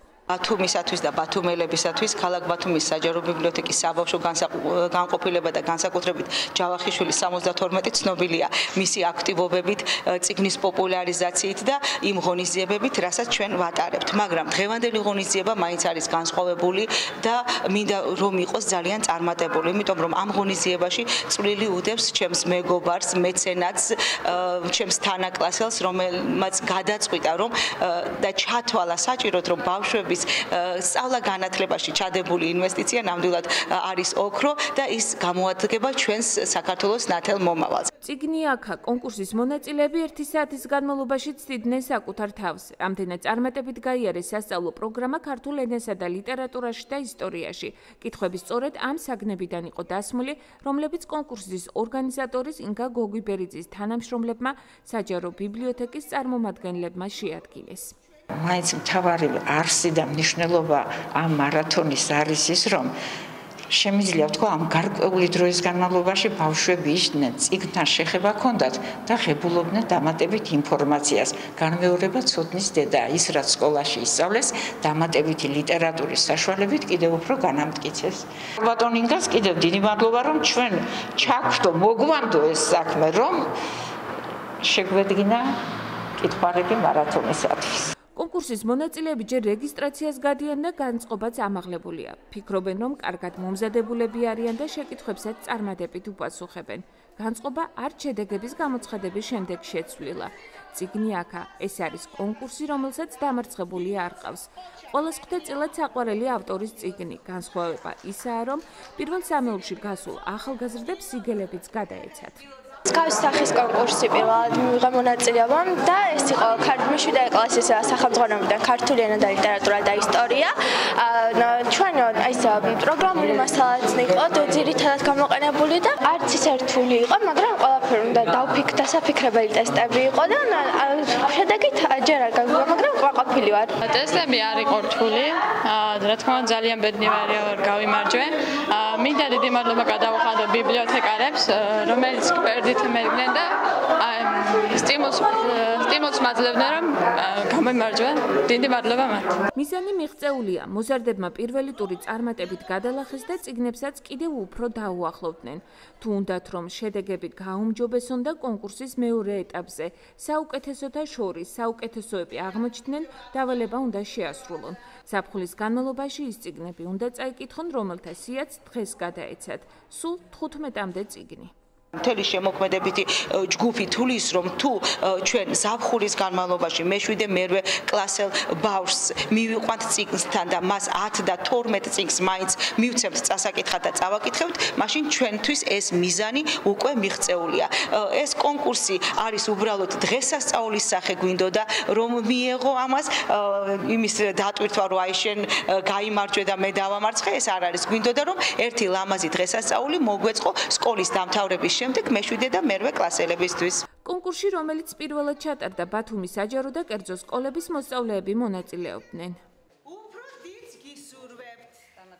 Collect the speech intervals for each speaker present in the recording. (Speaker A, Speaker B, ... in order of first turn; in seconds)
Speaker A: 0.3-37.9, 172.0-203.8, 209.8-211.9
Speaker B: 38.0-57.9, 88.2-112.4, 149.5-171.5, 204.0-209.4
Speaker C: 58.4-62.9, 63.7-83.5, 84.6-85.6, 86.2-87.9
Speaker D: 112.9-133.7
Speaker E: 133.8-149.4